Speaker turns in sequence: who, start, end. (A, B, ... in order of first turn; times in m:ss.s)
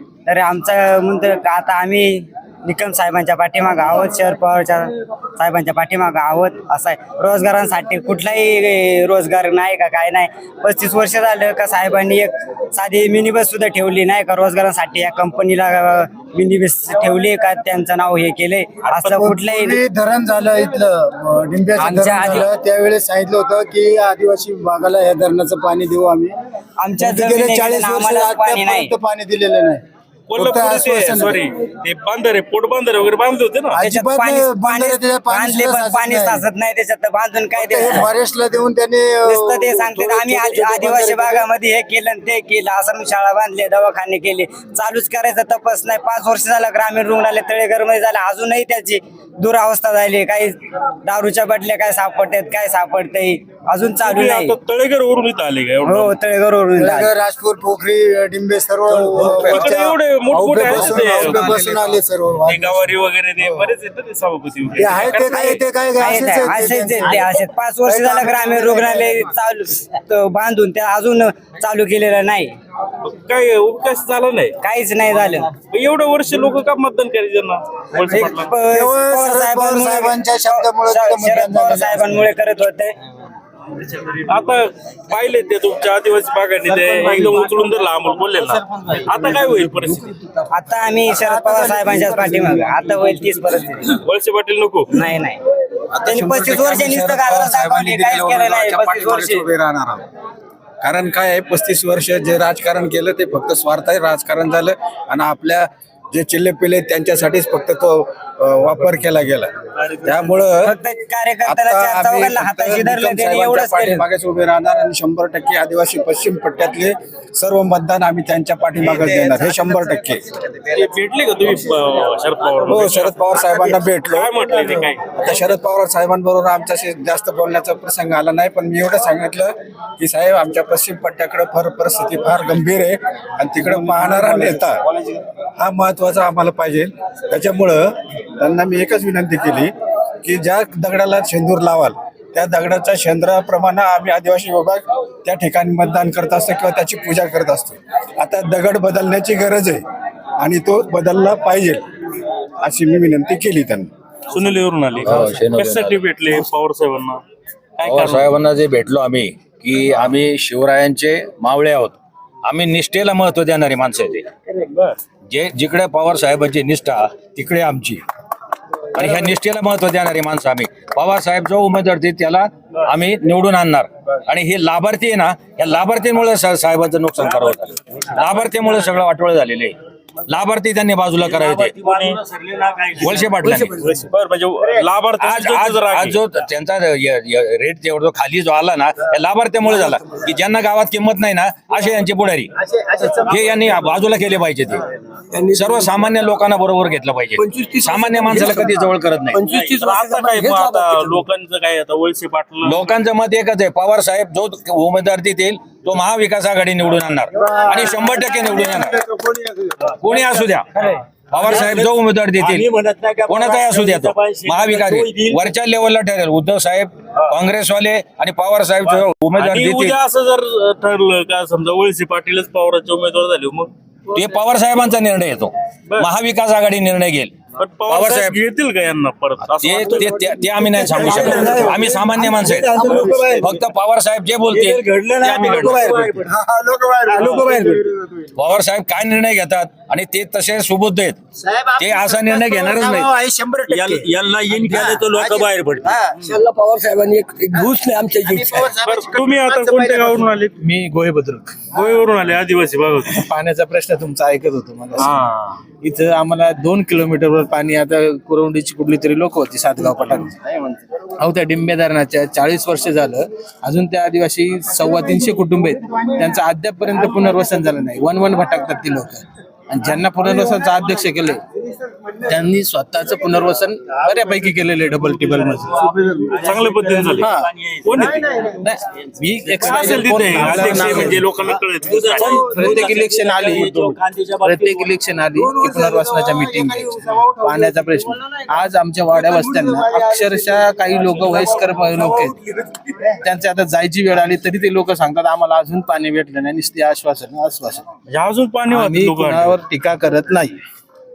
0:00.3-0:19.8 A
0:19.0-0:26.4 B
0:21.8-0:22.5 A
0:26.8-0:28.9 A
0:27.0-0:29.8 B
0:30.3-0:33.8 C
0:30.4-0:31.4 B
0:33.7-0:36.4 B
0:33.8-0:38.1 A
0:37.6-0:39.9 B
0:39.2-0:54.6 A
0:39.9-0:41.4 D
0:54.0-0:56.2 C
0:55.8-0:57.2 A
0:56.8-1:02.8 B
0:58.9-0:59.8 E
0:59.2-1:01.6 C
1:00.6-1:02.0 E
1:02.5-1:05.4 C
1:04.8-1:07.3 B
1:05.1-1:12.5 A
1:08.2-1:08.8 B
1:13.0-1:14.6 C
1:14.6-1:15.5 A
1:15.7-1:18.5 C
1:18.1-1:23.0 A
1:18.7-1:22.2 B
1:24.0-1:30.2 C
1:30.5-1:34.0 A
1:31.1-1:32.8 B
1:34.0-1:34.9 C
1:34.9-1:35.4 A
1:35.9-1:40.0 E
1:36.0-1:39.5 A
1:40.8-1:50.7 E
1:50.6-1:54.1 A
1:51.4-2:00.2 E
2:00.7-2:05.4 C
2:02.6-2:14.8 E
2:15.6-2:19.7 E
2:20.2-2:29.8 E
2:30.4-2:31.9 E
2:32.6-2:33.9 E
2:34.3-2:37.2 C
2:35.0-2:36.0 F
2:37.8-2:38.4 C
2:37.8-2:44.3 F
2:44.6-2:45.0 C
2:45.3-2:48.0 F
2:48.9-2:59.8 F
3:00.3-3:01.8 F
3:01.2-3:04.0 D
3:01.8-3:02.2 C
3:03.0-3:06.2 C
3:03.0-3:03.8 F
3:05.2-3:12.5 F
3:12.6-3:13.7 D
3:13.1-3:14.8 F
3:15.3-3:16.2 D
3:15.5-3:19.4 F
3:17.4-3:21.2 D
3:19.4-3:22.9 C
3:22.6-3:29.1 F
3:27.4-3:28.4 D
3:29.2-3:30.2 D
3:30.0-3:30.7 F
3:30.8-3:31.8 C
3:31.3-3:32.7 F
3:31.4-3:35.4 D
3:33.3-3:40.0 F
3:38.8-3:43.7 C
3:44.1-3:47.4 F
3:47.6-3:50.3 C
3:47.9-3:48.4 F
3:49.6-3:55.9 F
3:50.9-3:51.7 B
3:50.9-3:52.0 C
3:51.0-3:51.6 D
3:52.4-3:53.6 D
3:52.7-3:53.3 C
3:52.9-3:53.4 B
3:54.5-3:56.3 D
3:55.0-3:56.3 C
3:56.3-3:57.8 B
3:57.1-3:57.8 D
3:57.1-3:57.7 C
3:58.4-4:01.2 F
4:01.8-4:03.1 F
4:01.8-4:03.9 B
4:03.7-4:06.4 C
4:03.7-4:08.8 D
4:08.3-4:09.0 B
4:08.5-4:10.6 C
4:10.6-4:11.6 G
4:11.7-4:13.3 C
4:13.1-4:15.2 G
4:15.0-4:15.6 C
4:15.8-4:31.4 G
4:32.2-4:35.9 G
4:35.9-4:38.5 D
4:36.4-4:37.3 C
4:37.1-4:37.5 G
4:37.8-4:38.5 C
4:38.6-4:41.3 G
4:39.6-4:43.0 C
4:40.5-4:41.0 D
4:41.8-4:44.9 D
4:42.3-4:52.4 G
4:45.6-4:46.6 D
4:53.0-4:57.9 G
4:58.1-4:59.6 C
4:58.7-5:00.6 G